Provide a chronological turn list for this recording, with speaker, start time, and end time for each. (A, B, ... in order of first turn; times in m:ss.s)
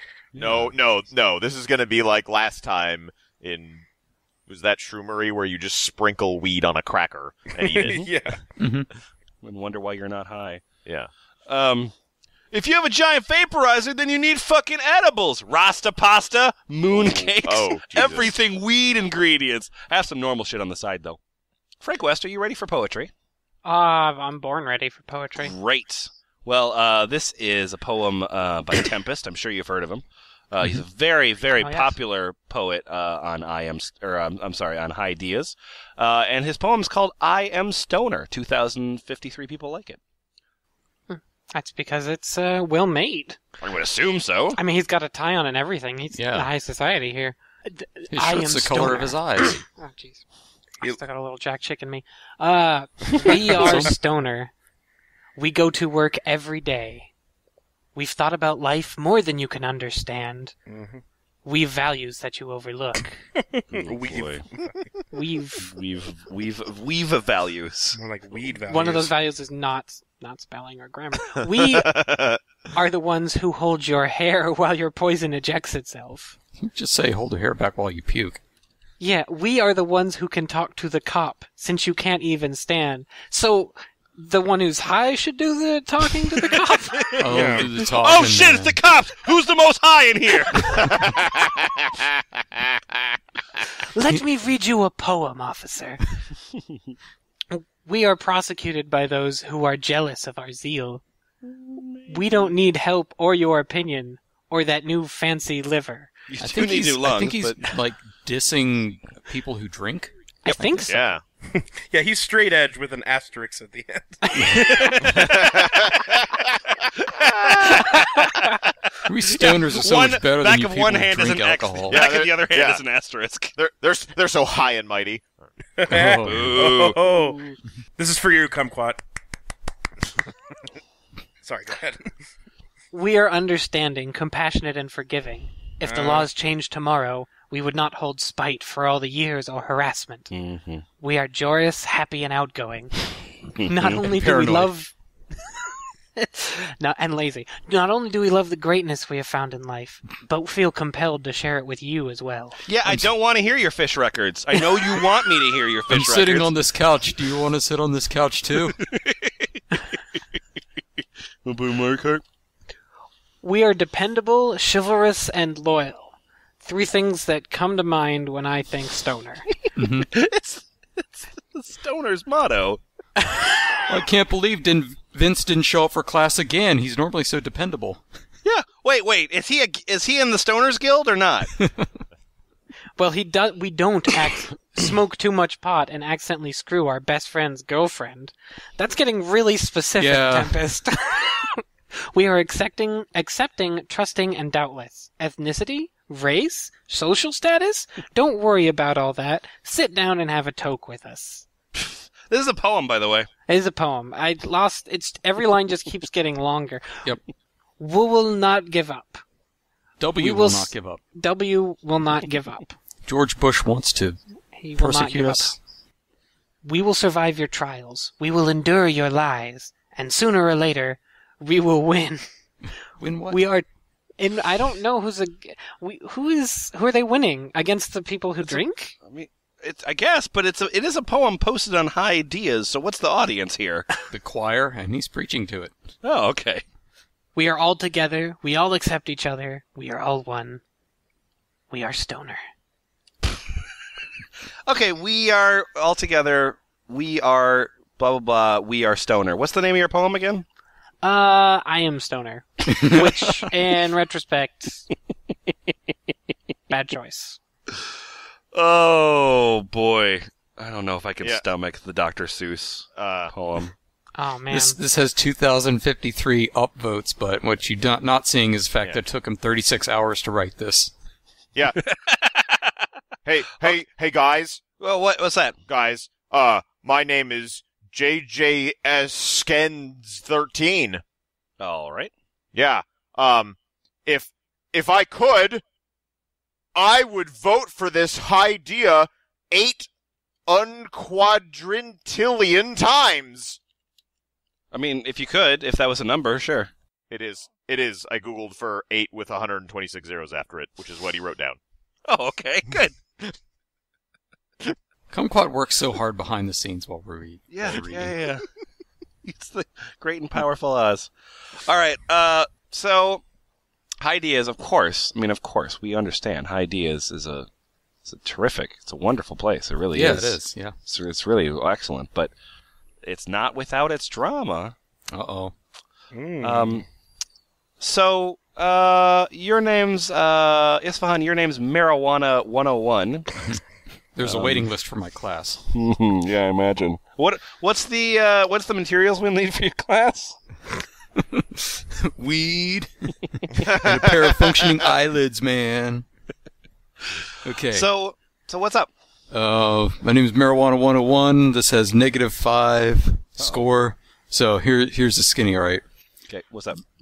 0:00.3-0:00.7 A
0:00.4-0:03.8 B
0:04.5-0:08.1 B
0:07.6-0:08.4 C
0:08.6-0:08.9 D
0:09.4-0:10.6 A
0:11.5-0:11.9 A
0:12.5-0:21.2 A
0:17.4-0:18.3 B
0:21.8-0:23.1 A
0:23.6-0:25.5 E
0:25.4-0:40.0 A
0:31.6-0:32.0 E
0:41.1-0:43.4 E
0:43.6-0:44.6 A
0:44.6-0:50.2 E
0:46.1-0:46.5 D
0:48.1-0:49.6 D
0:50.8-0:54.5 E
0:53.1-0:53.9 C
0:55.4-0:57.1 E
0:57.9-1:00.6 E
1:00.7-1:01.0 C
1:01.4-1:03.2 E
1:03.4-1:05.0 C
1:03.7-1:04.4 A
1:05.1-1:05.7 E
1:05.6-1:08.0 A
1:07.9-1:09.1 C
1:08.7-1:12.0 E
1:11.7-1:12.4 B
1:12.7-1:16.4 E
1:16.6-1:18.4 D
1:19.0-1:27.3 E
1:27.0-1:31.0 A
1:27.2-1:28.7 D
1:27.3-1:27.7 C
1:30.9-1:32.6 B
1:33.9-1:36.0 E
1:37.5-1:41.0 E
1:41.4-1:42.5 A
1:42.1-1:46.1 E
1:46.3-1:47.7 A
1:46.4-1:50.7 D
1:50.4-1:51.0 E
1:50.9-1:51.2 B
1:51.5-1:55.3 C
1:55.0-1:55.4 A
1:55.1-1:56.5 B
1:56.9-1:58.5 A
1:59.1-2:02.0 D
1:59.3-2:03.5 A
2:01.9-2:02.8 B
2:03.5-2:05.5 B
2:05.8-2:07.4 C
2:05.9-2:06.6 D
2:06.2-2:07.0 A
2:07.0-2:07.5 E
2:08.0-2:09.0 C
2:11.4-2:12.1 C
2:12.9-2:20.3 E
2:15.8-2:16.3 C
2:20.3-2:20.8 A
2:21.0-2:23.1 E
2:23.6-2:24.0 A
2:23.7-2:24.9 E
2:24.0-2:24.7 D
2:26.2-2:32.6 E
2:32.7-2:36.5 A
2:35.9-2:38.8 D
2:38.8-2:39.6 A
2:41.4-2:42.2 A
2:43.4-2:49.4 E
2:49.8-2:50.1 D
2:49.8-2:52.8 A
2:53.9-2:58.0 D
2:58.4-3:01.5 A
3:01.6-3:01.9 D
3:03.0-3:21.4 E
3:10.0-3:10.6 D
3:21.7-3:23.3 A
3:23.5-3:27.1 E
3:27.8-3:29.2 E
3:30.0-3:31.0 D
3:30.2-3:32.8 E
3:33.0-3:34.2 D
3:34.6-3:35.5 E
3:34.8-3:35.6 D
3:36.6-3:42.3 E
3:43.0-3:43.4 D
3:43.3-3:43.6 E
3:44.2-3:48.9 E
3:48.4-3:53.8 A
3:54.1-3:55.7 D
3:56.0-3:56.6 A
3:57.3-4:00.6 E
4:01.7-4:02.4 E
4:04.7-4:10.4 A
4:11.0-4:14.9 E
4:12.7-4:13.0 D
4:16.7-4:17.4 E
4:18.5-4:23.7 A
4:22.9-4:23.3 B
4:24.2-4:24.8 E
4:24.5-4:30.9 D
4:31.8-4:32.7 A
4:33.2-4:34.6 B
4:34.8-4:35.6 A
4:35.7-4:41.0 B
4:41.6-4:42.1 A
4:42.5-4:45.6 B
4:46.7-4:49.9 B
4:50.5-4:53.6 B
4:54.7-4:56.7 A
4:57.1-5:01.6 B
5:02.1-5:03.0 A
5:05.1-5:08.1 D
5:07.5-5:08.4 A
5:09.2-5:13.2 A
5:14.0-5:17.5 A
5:18.0-5:22.3 A
5:19.9-5:20.7 D
5:23.0-5:24.7 A
5:25.1-5:25.5 D
5:26.1-5:26.8 C
5:26.4-5:26.8 A
5:27.8-5:33.3 A
5:34.2-5:35.6 D
5:34.2-5:34.6 A
5:35.7-5:40.4 A
5:41.2-5:46.0 D
5:43.8-5:44.0 B
5:47.4-5:47.9 D
5:47.7-5:48.9 A
5:49.3-5:55.8 D
5:53.4-5:53.6 A
5:56.3-5:56.8 A